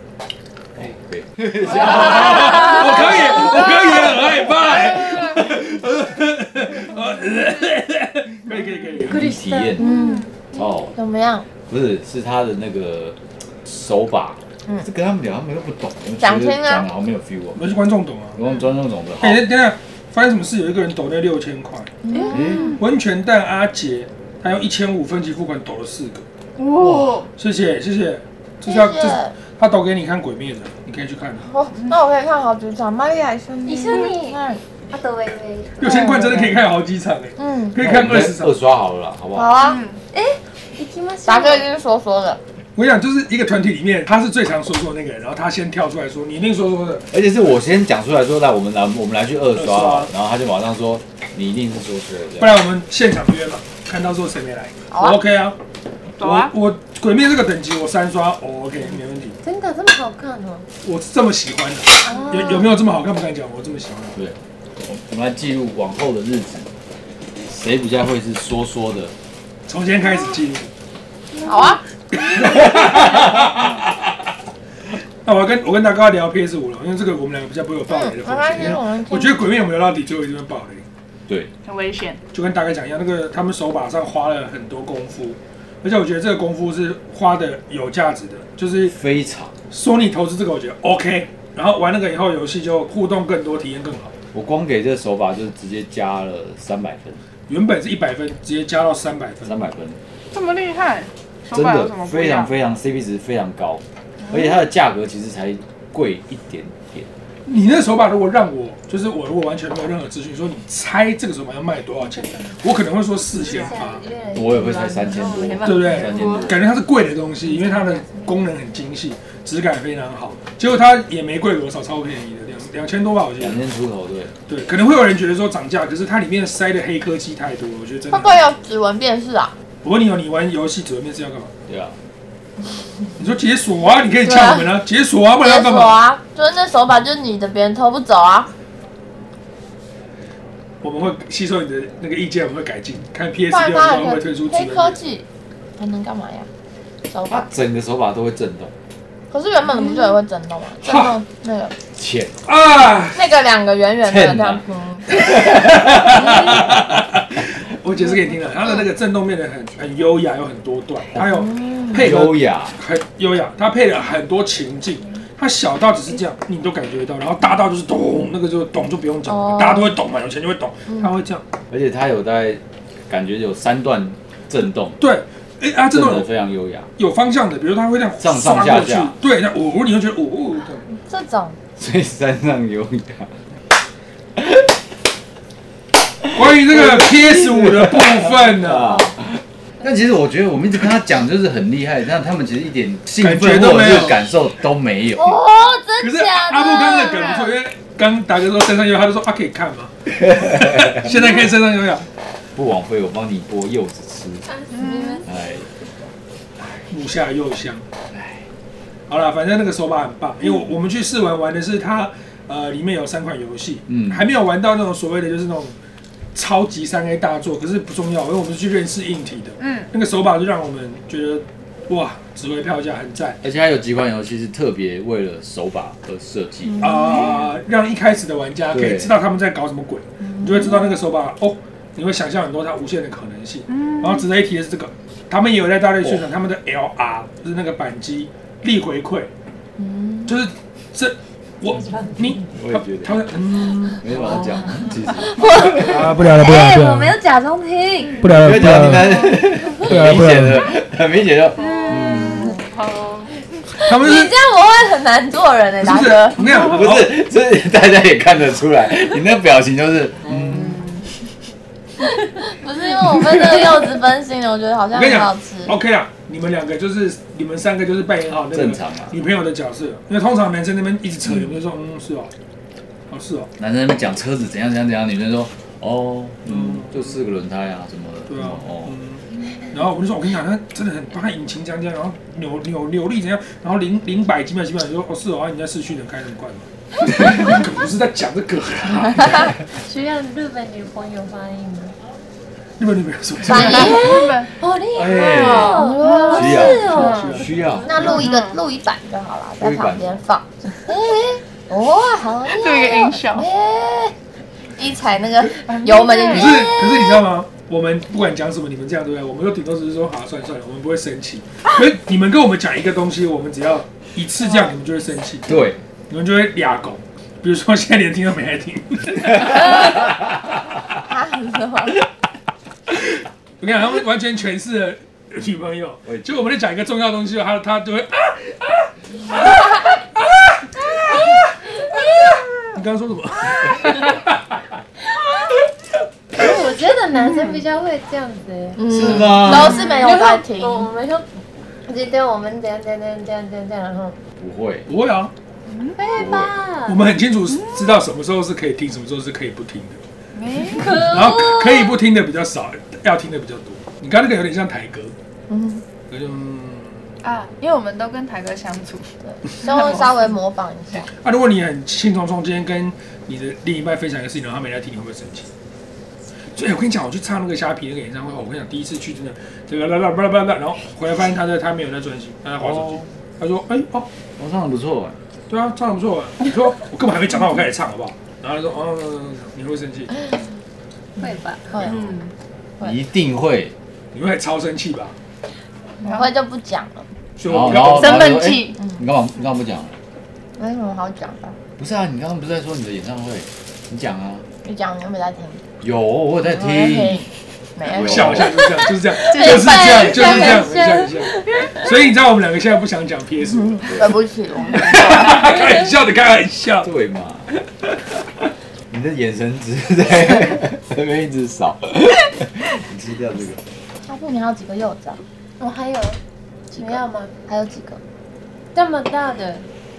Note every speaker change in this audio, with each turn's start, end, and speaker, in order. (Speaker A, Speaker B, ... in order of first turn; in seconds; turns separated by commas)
Speaker A: 0.8-2.7, Speaker B: 1.7-9.2, Speaker C: 2.4-2.8, Speaker D: 9.0-9.9, Speaker A: 9.1-9.9, Speaker C: 9.8-10.3, Speaker E: 9.8-11.5, Speaker A: 10.5-10.9, Speaker A: 11.7-17.6, Speaker E: 16.2-16.9, Speaker B: 17.5-18.4, Speaker A: 18.3-19.4, Speaker B: 19.2-21.9, Speaker E: 22.0-22.8, Speaker C: 22.1-22.7, Speaker A: 22.3-22.7, Speaker B: 22.8-26.2, Speaker C: 26.6-27.3, Speaker A: 26.8-27.2, Speaker B: 27.4-31.4, Speaker E: 28.6-29.4, Speaker E: 31.4-34.6, Speaker D: 33.6-34.4, Speaker D: 34.9-36.5, Speaker B: 35.8-38.5, Speaker E: 35.8-36.4, Speaker E: 37.4-37.8, Speaker A: 37.8-39.5, Speaker E: 39.3-39.8, Speaker C: 39.6-40.0, Speaker D: 40.1-41.7, Speaker E: 41.2-42.4, Speaker B: 42.8-47.1, Speaker A: 47.1-52.6, Speaker B: 49.5-50.1, Speaker B: 52.4-55.5, Speaker E: 54.9-55.2, Speaker C: 56.2-56.5, Speaker B: 56.2-59.4, Speaker D: 59.4-60.7, Speaker B: 60.8-64.2, Speaker D: 62.0-62.7, Speaker A: 64.2-66.7, Speaker A: 67.5-69.1, Speaker B: 69.7-70.7, Speaker E: 71.4-71.8, Speaker B: 72.1-74.0, Speaker B: 75.2-80.8, Speaker E: 77.9-79.4, Speaker C: 81.6-82.2, Speaker B: 82.3-89.0, Speaker A: 88.9-89.5, Speaker B: 89.7-94.1, Speaker A: 94.3-97.2, Speaker B: 97.5-99.6, Speaker A: 99.4-100.0, Speaker C: 100.3-102.5, Speaker A: 101.5-107.1, Speaker B: 107.5-114.0, Speaker D: 112.2-112.5, Speaker D: 113.4-116.1, Speaker A: 114.3-116.6, Speaker C: 115.1-116.6, Speaker B: 115.6-123.6, Speaker D: 117.5-118.3, Speaker A: 123.4-124.3, Speaker B: 124.5-128.4, Speaker E: 128.1-129.5, Speaker B: 129.8-131.5, Speaker A: 131.7-131.9, Speaker B: 133.2-136.0, Speaker E: 134.2-134.7, Speaker E: 135.4-138.5, Speaker B: 140.8-145.0, Speaker E: 143.5-145.2, Speaker E: 145.8-146.5, Speaker E: 147.1-147.5, Speaker A: 147.3-148.7, Speaker E: 149.3-151.7, Speaker B: 150.8-151.2, Speaker A: 151.9-152.4, Speaker B: 152.4-153.3, Speaker E: 153.1-155.4, Speaker A: 154.0-154.6, Speaker A: 155.1-156.7, Speaker B: 155.4-171.4, Speaker E: 156.2-156.6, Speaker E: 161.2-162.1, Speaker A: 161.9-162.8, Speaker E: 169.3-169.9, Speaker A: 171.7-175.0, Speaker B: 175.0-176.3, Speaker A: 175.9-176.9, Speaker B: 177.0-180.9, Speaker A: 178.2-179.2, Speaker E: 180.9-181.6, Speaker A: 181.8-183.3, Speaker A: 184.4-184.7, Speaker B: 186.3-189.0, Speaker A: 186.7-195.4, Speaker B: 193.2-194.2, Speaker E: 195.1-197.5, Speaker B: 196.0-202.1, Speaker C: 197.1-197.5, Speaker A: 200.4-201.1, Speaker A: 202.5-204.5, Speaker D: 204.7-205.2, Speaker C: 204.7-205.2, Speaker A: 205.2-205.7, Speaker B: 206.7-207.8, Speaker A: 208.1-208.4, Speaker B: 209.1-215.7, Speaker A: 213.9-214.2, Speaker B: 216.3-223.4, Speaker C: 219.6-219.9, Speaker A: 223.4-226.9, Speaker E: 226.7-227.4, Speaker B: 226.8-239.3, Speaker A: 228.7-229.1, Speaker E: 230.2-230.8, Speaker C: 233.7-234.2, Speaker A: 236.0-236.3, Speaker E: 239.8-240.4, Speaker B: 240.2-244.5, Speaker D: 241.8-242.2, Speaker A: 242.5-243.2, Speaker A: 244.0-245.7, Speaker E: 245.2-248.2, Speaker B: 245.7-247.2, Speaker B: 248.2-250.7, Speaker A: 248.3-252.5, Speaker C: 251.6-253.3, Speaker E: 251.7-252.6, Speaker B: 253.8-254.3, Speaker E: 253.8-256.6, Speaker B: 255.8-257.1, Speaker A: 256.7-260.8, Speaker B: 260.2-260.7, Speaker C: 260.5-261.1, Speaker E: 262.2-265.8, Speaker B: 264.9-272.3, Speaker A: 268.5-269.1, Speaker B: 273.1-273.5, Speaker A: 273.6-278.9, Speaker B: 276.4-277.1, Speaker B: 278.3-289.5, Speaker D: 289.7-291.9, Speaker B: 292.8-294.1, Speaker E: 293.4-294.5, Speaker C: 293.5-294.5, Speaker D: 293.8-298.3, Speaker A: 294.9-298.1, Speaker B: 295.0-295.3, Speaker C: 295.1-297.4, Speaker E: 295.3-297.2, Speaker B: 296.8-297.5, Speaker E: 297.8-304.1, Speaker C: 298.0-298.6, Speaker A: 299.6-300.1, Speaker C: 302.4-303.5, Speaker E: 304.8-307.2, Speaker C: 305.6-306.6, Speaker B: 306.3-319.9, Speaker A: 315.5-315.8, Speaker E: 319.6-320.0, Speaker E: 320.9-322.0, Speaker B: 322.9-329.8, Speaker B: 332.7-334.4, Speaker D: 336.3-341.3, Speaker C: 337.1-337.6, Speaker E: 338.8-340.9, Speaker A: 338.9-339.8, Speaker C: 339.4-340.2, Speaker D: 341.9-344.2, Speaker A: 344.4-344.9, Speaker B: 344.9-345.3, Speaker C: 345.7-346.0, Speaker D: 345.9-347.0, Speaker A: 346.1-346.6, Speaker B: 346.9-350.0, Speaker C: 347.5-348.0, Speaker C: 350.3-351.1, Speaker D: 350.8-351.2, Speaker B: 350.8-355.1, Speaker E: 355.5-355.8, Speaker B: 356.1-357.1, Speaker C: 357.2-359.1, Speaker E: 359.2-361.1, Speaker C: 359.6-360.3, Speaker B: 361.2-365.5, Speaker B: 366.6-374.1, Speaker A: 372.6-373.1, Speaker A: 374.4-375.2, Speaker B: 375.5-380.2, Speaker D: 381.2-381.7, Speaker E: 381.7-382.1, Speaker C: 381.8-382.3, Speaker A: 382.8-383.7, Speaker B: 384.1-385.1, Speaker E: 386.0-387.1, Speaker B: 387.4-388.2, Speaker A: 387.5-390.0, Speaker C: 387.9-388.8, Speaker E: 390.6-391.6, Speaker A: 391.8-394.4, Speaker E: 394.6-395.6, Speaker A: 395.8-397.2, Speaker E: 396.5-400.8, Speaker A: 397.9-398.6, Speaker B: 397.9-404.0, Speaker C: 399.3-400.6, Speaker D: 399.4-401.1, Speaker E: 401.3-401.8, Speaker E: 403.5-405.6, Speaker B: 404.7-406.9, Speaker A: 406.8-407.5, Speaker A: 408.9-413.6, Speaker E: 414.0-415.2, Speaker D: 415.6-416.2, Speaker D: 416.7-417.3, Speaker E: 416.8-418.0, Speaker D: 418.7-419.7